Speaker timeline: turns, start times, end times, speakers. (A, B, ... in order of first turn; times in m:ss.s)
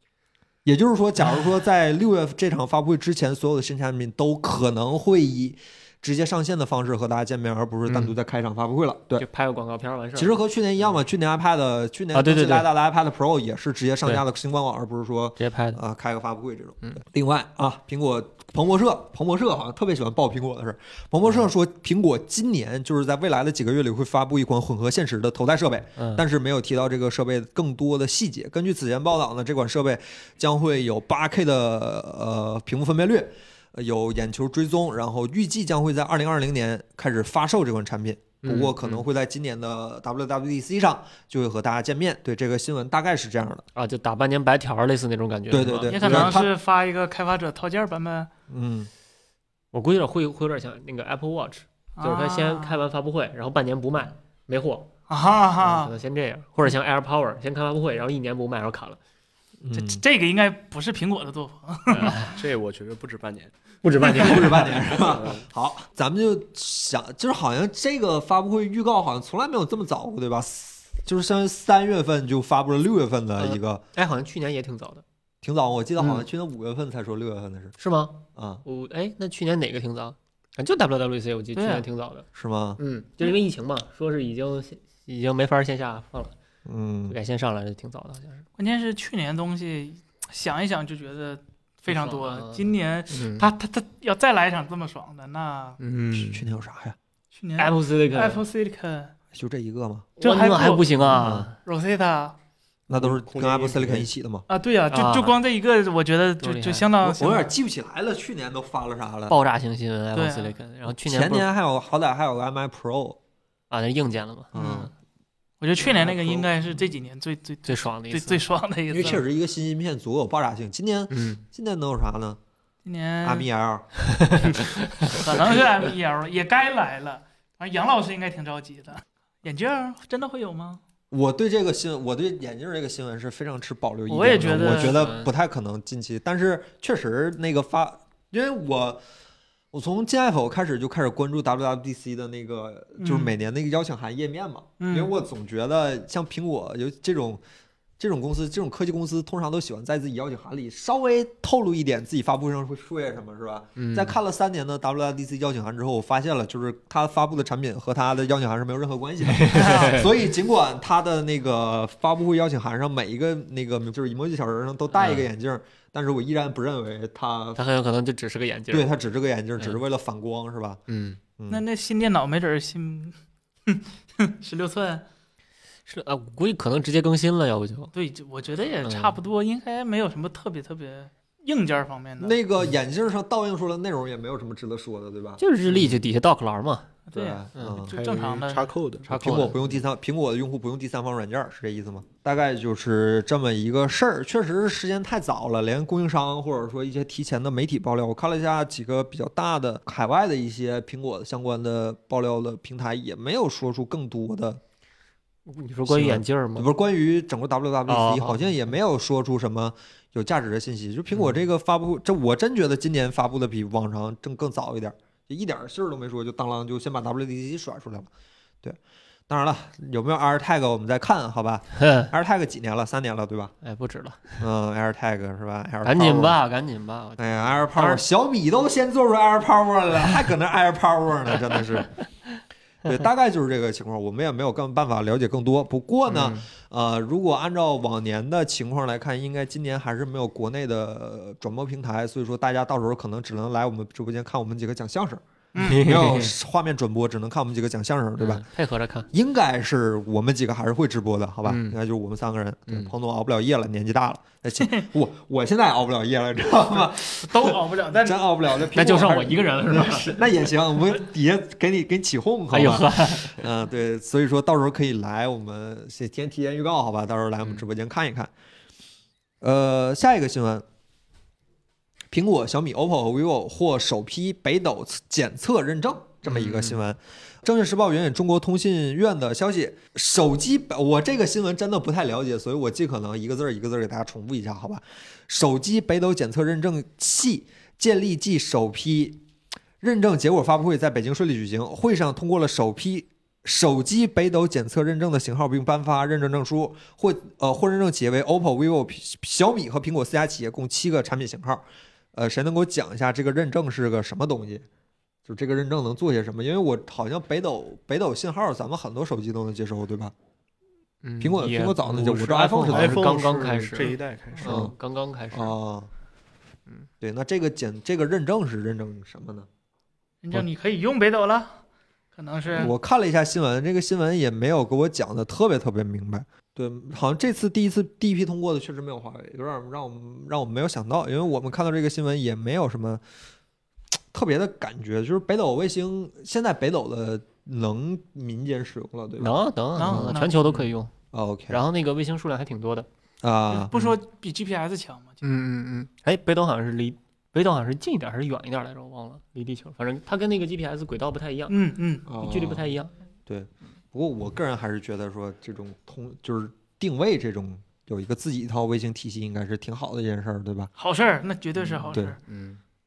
0:00.6-0:09.2 A
0:07.9-0:08.1 B
0:09.2-0:10.8 B
0:10.1-0:43.6 A
0:12.1-0:12.6 B
0:15.4-0:15.8 B
0:26.0-0:26.2 B
0:38.4-0:39.0 B
0:43.8-0:46.3 B
0:45.5-0:46.5 A
0:45.9-0:48.3 C
0:48.5-0:48.9 A
0:49.7-0:54.9 B
0:52.0-0:52.8 C
0:55.1-0:55.9 C
0:55.6-0:59.0 B
0:59.6-1:00.0 A
0:59.7-1:02.2 C
1:01.9-1:02.3 B
1:02.3-1:03.5 D
1:03.8-1:05.0 B
1:04.0-1:13.8 A
1:04.1-1:04.5 C
1:05.1-1:05.4 D
1:13.4-1:15.0 B
1:15.4-1:17.8 A
1:16.0-1:16.2 B
1:17.8-1:22.2 B
1:18.3-1:18.6 A
1:21.5-1:21.8 C
1:22.3-1:22.8 A
1:22.8-1:26.3 B
1:26.6-1:27.2 A
1:27.1-1:28.4 B
1:28.6-1:35.8 C
1:31.9-1:33.5 B
1:35.8-1:36.4 B
1:36.1-1:37.0 A
1:37.3-1:39.1 C
1:37.6-1:38.4 B
1:39.3-1:40.1 A
1:40.2-1:41.5 B
1:40.2-1:41.1 C
1:41.1-1:41.5 A
1:41.6-1:42.4 C
1:42.9-1:44.4 A
1:42.9-1:44.1 D
1:44.5-1:47.5 C
1:44.9-1:45.3 B
1:46.4-1:46.9 B
1:47.0-1:49.4 A
1:49.3-1:51.5 B
1:50.1-1:50.5 C
1:50.9-1:53.2 A
1:53.7-1:54.5 B
1:54.5-1:54.9 A
1:54.5-1:54.9 C
1:55.6-1:59.2 C
1:55.8-1:56.5 A
1:57.6-1:58.4 B
1:58.9-2:02.4 A
2:01.1-2:01.4 B
2:02.8-2:03.5 C
2:03.2-2:04.6 A
2:04.1-2:05.1 B
2:05.0-2:10.8 C
2:11.1-2:19.0 A
2:14.1-2:15.0 C
2:14.4-2:15.3 B
2:19.7-2:27.4 A
2:23.0-2:23.3 C
2:24.8-2:25.1 C
2:28.0-2:47.6 A
2:33.8-2:34.2 B
2:39.3-2:40.1 B
2:39.6-2:39.9 C
2:44.9-2:45.3 B
2:47.6-2:48.9 B
2:48.7-2:50.8 A
2:50.9-2:51.2 B
2:51.4-2:51.6 A
2:51.5-2:53.1 C
2:53.7-2:55.0 C
2:55.9-2:57.9 B
2:57.9-3:02.4 C
2:58.8-2:59.2 B
3:02.2-3:06.0 A
3:05.4-3:06.9 B
3:07.1-3:08.6 C
3:07.1-3:07.9 A
3:07.8-3:09.1 D
3:09.0-3:09.7 B
3:09.0-3:24.6 A
3:25.5-3:26.7 B
3:25.9-3:38.1 A
3:27.9-3:28.4 B
3:39.3-3:43.5 A
3:41.8-3:42.1 B
3:43.6-3:44.4 B
3:44.4-3:46.4 A
3:45.8-3:48.0 B
3:47.2-3:51.9 A
3:52.8-4:08.4 A
3:56.1-3:56.4 B
4:05.5-4:05.9 C
4:05.6-4:06.3 B
4:08.2-4:09.1 B
4:09.1-4:28.3 A
4:11.4-4:11.8 B
4:14.6-4:14.8 C
4:17.2-4:18.2 C
4:18.6-4:20.2 B
4:22.5-4:23.4 B
4:29.4-4:30.6 A
4:32.1-4:49.2 A
4:36.2-4:36.8 B
4:49.8-5:04.6 A
5:05.2-5:10.1 A
5:11.0-5:15.5 B
5:11.2-5:14.7 A
5:12.6-5:14.7 D
5:15.3-5:15.9 A
5:17.0-5:19.5 A
5:20.2-5:21.6 C
5:22.1-5:22.7 C
5:22.5-5:33.0 A
5:34.1-5:40.2 A
5:39.2-5:40.9 B
5:39.8-5:40.5 C
5:41.1-5:41.6 A
5:41.5-5:42.9 B
5:43.2-5:43.7 A
5:43.5-5:45.2 C
5:43.7-5:44.0 B
5:45.2-5:51.6 B
5:51.5-5:52.0 C
5:52.1-5:52.6 A
5:52.1-5:52.9 B
5:53.3-6:00.7 A
6:00.8-6:02.2 C
6:01.6-6:02.6 B